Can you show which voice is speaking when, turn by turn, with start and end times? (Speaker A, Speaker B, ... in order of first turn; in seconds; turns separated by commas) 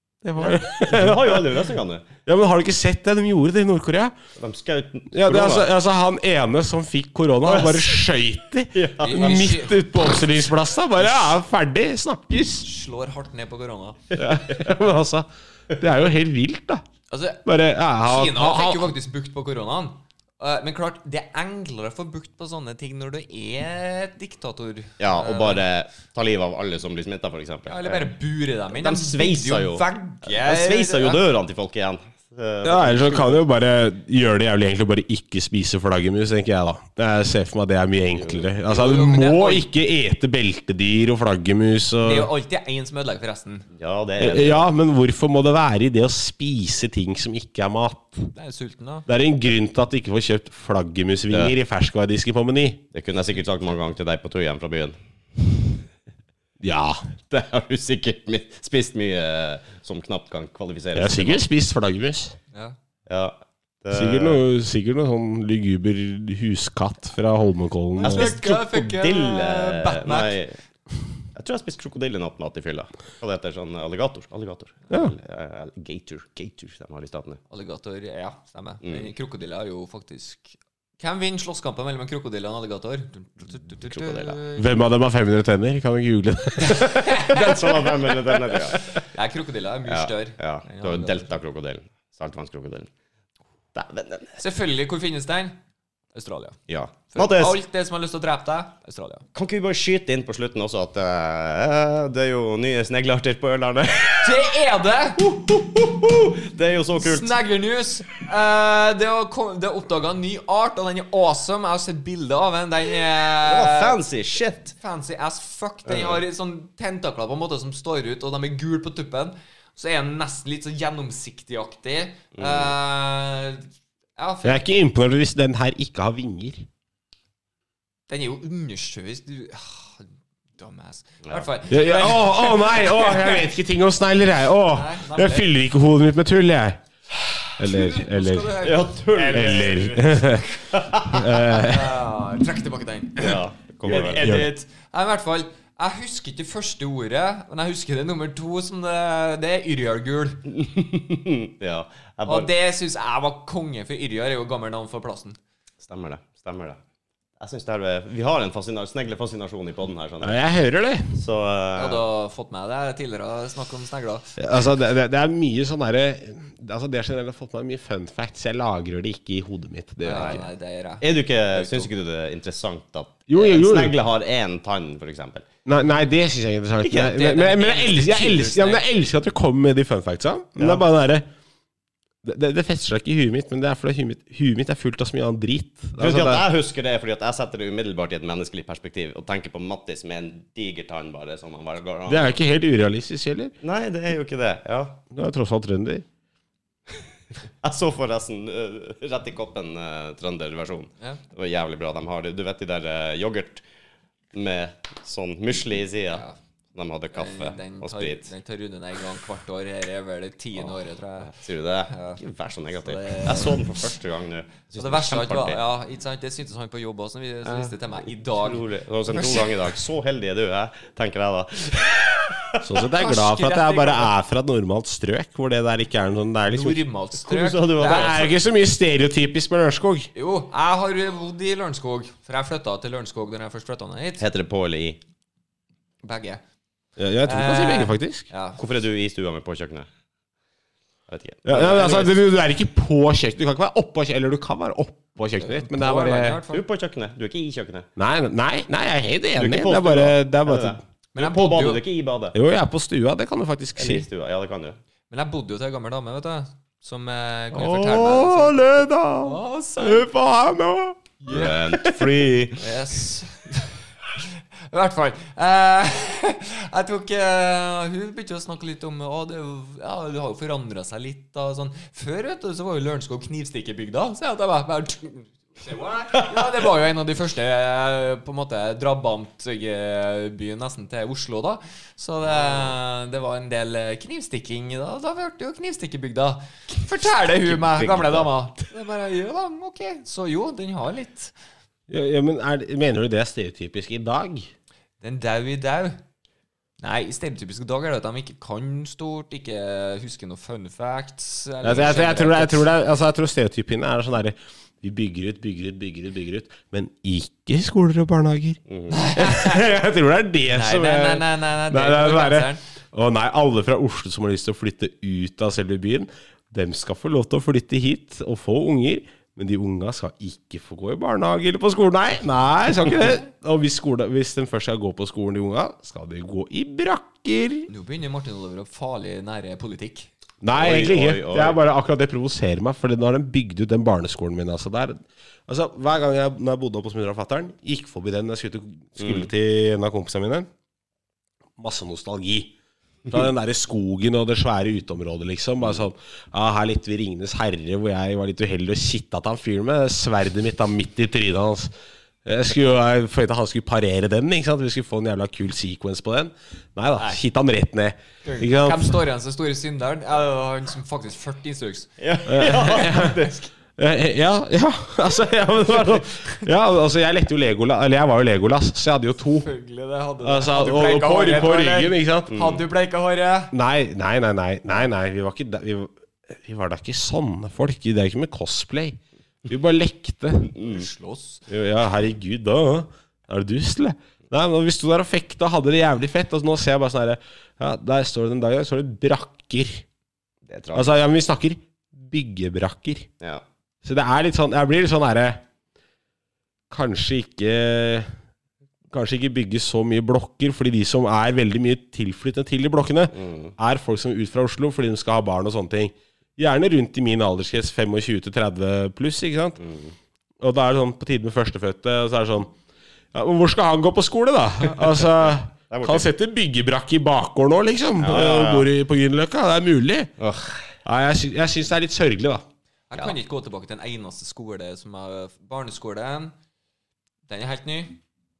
Speaker A: 0.2-1.6, Speaker B: 0.4-2.1, Speaker A: 2.2-4.1, Speaker B: 4.4-5.7, Speaker A: 5.1-12.4, Speaker B: 7.4-8.0, Speaker B: 8.7-9.5, Speaker C: 9.0-9.8, Speaker C: 12.3-14.0, Speaker A: 14.2-16.8, Speaker B: 14.2-14.6, Speaker C: 17.1-17.4, Speaker A: 17.4-18.9, Speaker C: 18.0-25.6, Speaker B: 25.0-28.1, Speaker C: 27.7-31.2, Speaker B: 28.7-33.4, Speaker A: 32.6-42.3, Speaker B: 38.2-38.4, Speaker C: 38.7-39.7, Speaker C: 42.0-43.7, Speaker B: 43.8-44.7, Speaker A: 44.2-48.3, Speaker C: 48.3-49.1, Speaker A: 49.1-52.8, Speaker B: 52.9-55.8, Speaker A: 56.6-57.0, Speaker B: 57.3-61.4, Speaker A: 60.9-62.4, Speaker B: 63.1-64.4, Speaker A: 63.9-68.4, Speaker C: 68.0-70.4, Speaker B: 68.0-70.5, Speaker B: 71.3-77.4, Speaker C: 77.5-84.8, Speaker B: 78.8-79.1, Speaker B: 83.9-84.4, Speaker A: 84.6-87.8, Speaker C: 86.7-87.3, Speaker B: 87.2-88.8, Speaker C: 88.9-91.3, Speaker B: 89.9-92.9, Speaker B: 93.7-94.4, Speaker C: 94.4-95.6, Speaker C: 96.1-96.6, Speaker B: 96.7-97.6, Speaker C: 97.1-99.2, Speaker B: 99.3-104.5, Speaker C: 104.2-105.3, Speaker B: 105.2-107.3, Speaker C: 107.0-114.0, Speaker B: 113.5-114.7, Speaker C: 114.8-124.7, Speaker B: 115.8-116.2, Speaker B: 122.3-122.7, Speaker A: 124.4-126.7, Speaker C: 128.1-133.5, Speaker A: 131.7-136.8, Speaker C: 134.7-135.5, Speaker A: 137.6-138.5, Speaker C: 137.7-140.3, Speaker B: 138.6-141.3, Speaker A: 139.3-140.4, Speaker A: 141.1-142.0, Speaker C: 141.3-150.5, Speaker B: 143.2-144.3, Speaker A: 143.9-144.5, Speaker B: 150.5-152.5, Speaker C: 152.2-155.4, Speaker B: 155.8-156.8, Speaker B: 157.4-160.4, Speaker A: 160.2-161.1, Speaker B: 161.1-162.0, Speaker C: 161.8-164.3, Speaker A: 164.4-170.4, Speaker C: 170.0-171.9, Speaker B: 170.1-170.4, Speaker B: 171.0-175.4, Speaker A: 173.3-173.9, Speaker A: 175.7-181.2, Speaker C: 176.9-178.8, Speaker B: 180.6-180.8, Speaker A: 182.2-186.4, Speaker B: 186.0-192.3, Speaker A: 192.1-193.5, Speaker B: 193.6-195.0, Speaker A: 195.1-196.0, Speaker B: 197.6-203.6, Speaker B: 204.3-206.2, Speaker C: 206.1-206.4, Speaker B: 206.7-208.3, Speaker C: 207.1-211.3, Speaker B: 210.6-215.6, Speaker C: 211.9-212.2, Speaker C: 212.8-213.7, Speaker C: 214.8-219.8, Speaker B: 217.4-222.7, Speaker A: 222.6-226.8, Speaker C: 222.8-224.1, Speaker C: 226.5-228.3, Speaker B: 227.2-228.3, Speaker A: 227.8-230.1, Speaker C: 230.1-234.2, Speaker B: 234.2-235.0, Speaker C: 236.0-236.4, Speaker A: 237.0-238.3, Speaker C: 237.2-238.6, Speaker B: 238.6-239.9, Speaker B: 241.1-242.2, Speaker A: 241.4-246.4, Speaker C: 245.3-246.6, Speaker B: 246.5-247.9, Speaker A: 248.0-250.8, Speaker B: 249.3-252.3, Speaker C: 251.1-251.8, Speaker A: 252.3-254.1, Speaker B: 253.8-254.8, Speaker C: 255.1-260.1, Speaker B: 257.5-258.8, Speaker A: 258.4-262.0, Speaker C: 261.2-261.6, Speaker B: 261.3-262.6, Speaker C: 262.6-291.3, Speaker B: 282.3-282.7, Speaker B: 287.0-288.3, Speaker A: 291.9-294.5, Speaker C: 295.0-296.0, Speaker C: 296.8-302.7, Speaker A: 301.6-308.6, Speaker B: 308.7-309.0, Speaker C: 308.9-309.6, Speaker A: 309.1-327.7, Speaker C: 310.5-312.6, Speaker C: 327.7-330.1, Speaker A: 330.4-340.5, Speaker B: 330.5-331.6, Speaker B: 339.0-339.3, Speaker A: 341.6-342.5, Speaker A: 343.1-351.7, Speaker A: 352.2-359.0, Speaker C: 358.2-363.1, Speaker B: 362.0-363.4, Speaker A: 362.2-369.5, Speaker C: 369.4-373.5, Speaker A: 370.2-372.3, Speaker B: 372.3-372.6, Speaker A: 373.5-380.5, Speaker B: 380.5-380.9, Speaker C: 380.6-381.4, Speaker A: 381.5-389.8, Speaker B: 390.4-391.0, Speaker A: 390.7-393.1, Speaker A: 393.8-395.4, Speaker A: 396.7-398.1, Speaker A: 398.9-409.6, Speaker B: 403.1-403.5, Speaker B: 409.6-409.9, Speaker A: 410.4-412.5, Speaker A: 413.1-420.1, Speaker B: 415.7-416.1, Speaker B: 418.0-418.7, Speaker B: 420.2-420.7, Speaker A: 420.8-422.4, Speaker C: 422.9-426.3, Speaker C: 427.3-428.0